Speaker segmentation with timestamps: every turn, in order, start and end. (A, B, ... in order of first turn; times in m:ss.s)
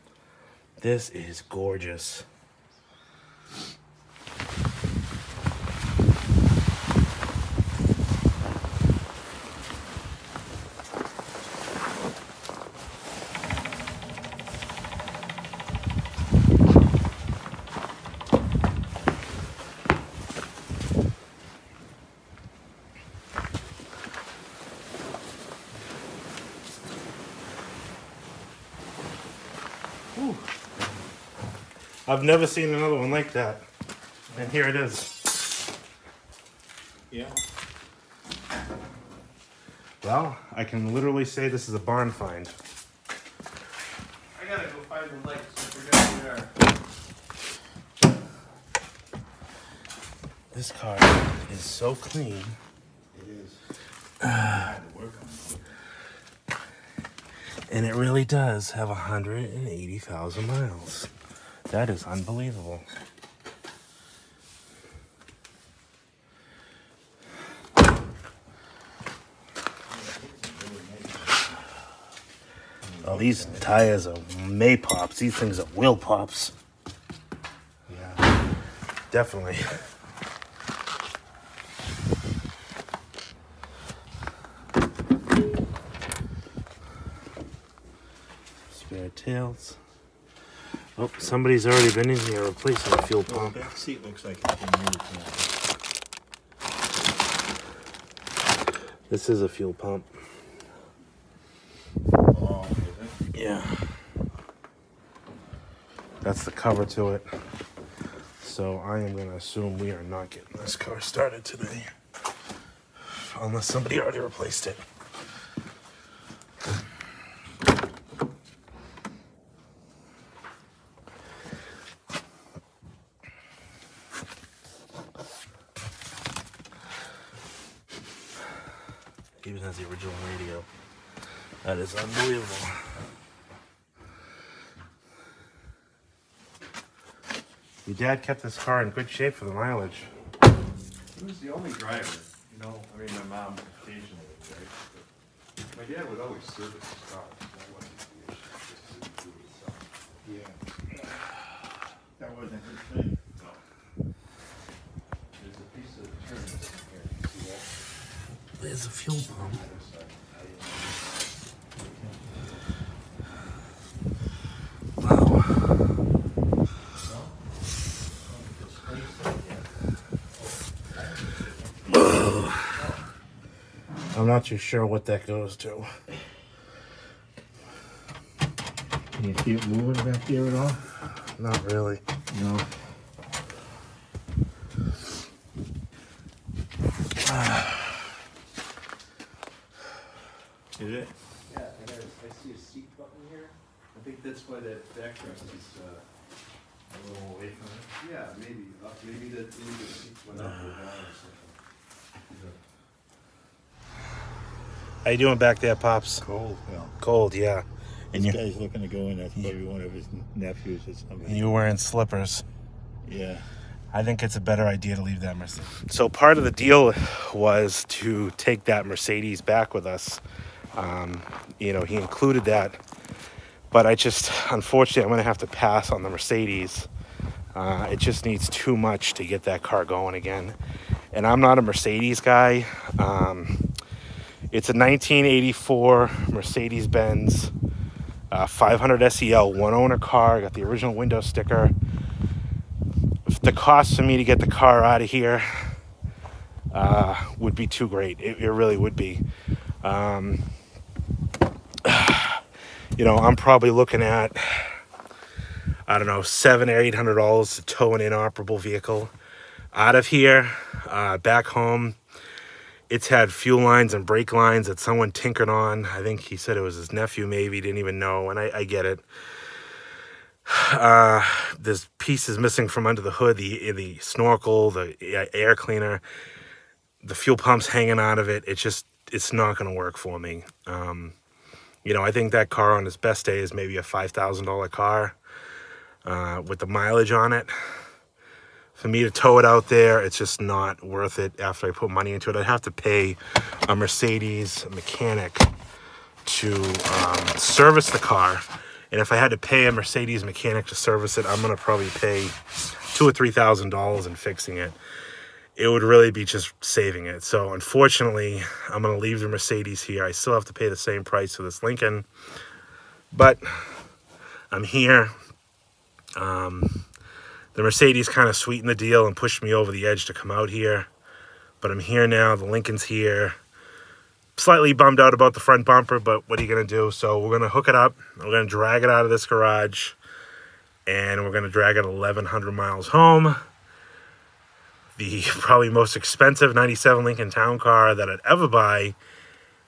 0:00.8-0:02.2 A
0:30.1-0:30.4 A
0:32.1-0:33.6 A
0:34.3-0:35.1 A
0:37.1-0:37.4 B
0:40.0-0:42.5 A
0:44.3-0:46.5 C
0:50.5-0:52.6 A
0:53.1-0:53.6 B
0:54.2-0:54.6 A
0:54.2-0:55.7 B
0:57.7-1:01.1 A
1:01.7-1:02.8 A
1:09.8-1:11.6 B
1:12.8-1:13.7 B
1:13.0-1:16.5 A
1:17.8-1:18.3 B
1:19.1-1:19.8 A
1:28.7-1:29.8 A
1:31.0-1:33.7 A
1:33.0-1:35.6 B
1:39.1-1:40.1 A
1:42.3-1:43.2 B
1:43.3-1:43.8 A
1:46.2-1:47.3 A
1:48.4-1:51.9 A
1:53.1-1:54.8 A
2:09.4-2:10.6 A
2:11.6-2:12.8 A
2:17.8-2:20.1 A
2:21.1-2:25.0 C
2:25.7-2:30.0 C
2:30.2-2:30.6 B
2:32.2-2:33.2 B
2:35.4-2:37.8 C
2:38.6-2:39.6 A
2:39.3-2:40.9 C
2:41.8-2:42.2 B
2:45.0-2:45.7 A
2:48.2-2:49.6 B
2:51.9-2:52.6 A
2:54.1-2:55.9 A
2:59.2-3:00.8 B
3:01.4-3:02.0 A
3:02.3-3:02.6 B
3:10.7-3:11.1 B
3:11.5-3:16.0 C
3:16.9-3:17.9 B
3:18.0-3:21.6 C
3:25.0-3:26.2 A
3:26.2-3:26.9 B
3:27.0-3:28.4 A
3:28.1-3:31.5 B
3:31.2-3:32.4 A
3:33.0-3:33.4 B
3:33.9-3:40.2 A
3:40.8-3:42.8 A
3:43.7-3:46.9 A
3:47.5-3:50.6 A
3:51.1-3:53.6 A
3:54.5-3:57.5 A
3:58.3-4:01.7 A
4:03.3-4:05.8 A
4:06.7-4:09.2 A
4:09.8-4:10.4 A
4:11.8-4:12.4 A
4:13.0-4:14.8 A
4:15.9-4:19.1 A
4:19.7-4:22.0 A
4:22.9-4:29.0 A
4:30.5-4:36.0 A
4:37.0-4:41.1 A
4:41.8-4:45.2 A
4:46.0-4:47.5 A
4:48.8-4:55.5 A
4:56.2-5:02.3 A
5:02.9-5:04.8 A
5:05.6-5:12.0 A
5:13.1-5:13.8 A
5:14.5-5:15.1 A
5:16.2-5:16.8 A
5:17.5-5:20.9 A
5:21.6-5:23.4 A
5:24.4-5:30.0 A
5:30.8-5:33.4 A
5:35.0-5:39.0 A